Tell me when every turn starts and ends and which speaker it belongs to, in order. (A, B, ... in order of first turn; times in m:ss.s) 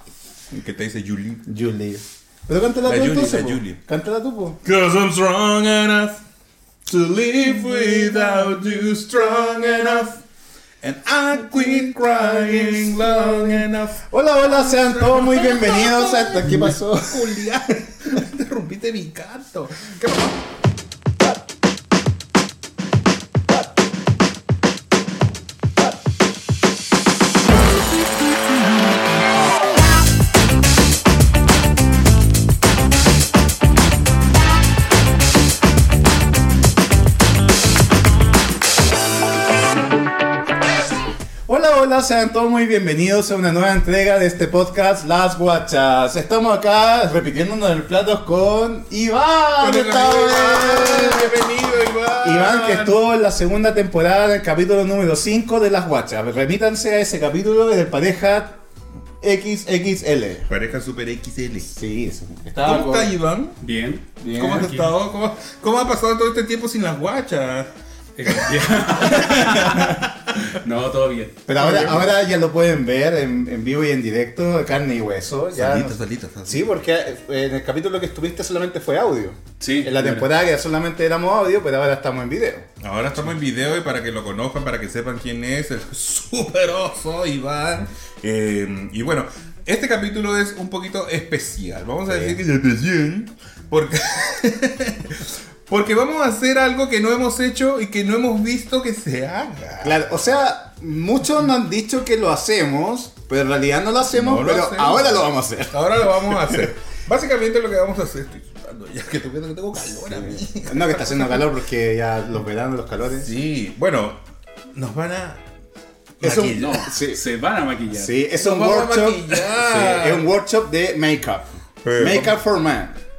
0:00.5-0:01.4 A
0:01.5-0:04.6 B
0:02.8-0:03.8 A
0:04.6-0:06.2 A
0:06.9-0:10.2 A
0:07.6-0:08.5 B
0:10.8-0:20.4 A
0:11.4-0:17.5 B
0:41.4-0:51.3 B
0:49.6-0:52.9 A
0:52.2-0:58.6 B
0:59.2-1:00.5 B
1:00.5-1:01.7 A
1:01.7-1:03.1 B
1:02.6-1:03.6 A
1:03.6-1:04.9 C
1:04.2-1:04.8 B
1:04.3-1:07.7 A
1:08.2-1:11.8 C
1:08.2-1:10.5 A
1:09.4-1:09.9 B
1:11.5-1:22.7 B
1:11.6-1:12.0 A
1:15.5-1:16.7 A
1:19.6-1:20.3 C
1:22.8-1:40.0 A
1:32.1-1:32.4 B
1:39.8-1:46.7 B
1:44.1-1:51.5 A
1:50.1-1:53.3 B
1:53.1-1:54.2 A
1:54.7-1:55.4 A
1:56.2-1:56.9 A
1:56.2-1:57.2 B
1:56.2-1:58.2 C
1:57.9-2:03.0 B
1:58.3-2:00.2 A
2:01.8-2:02.3 A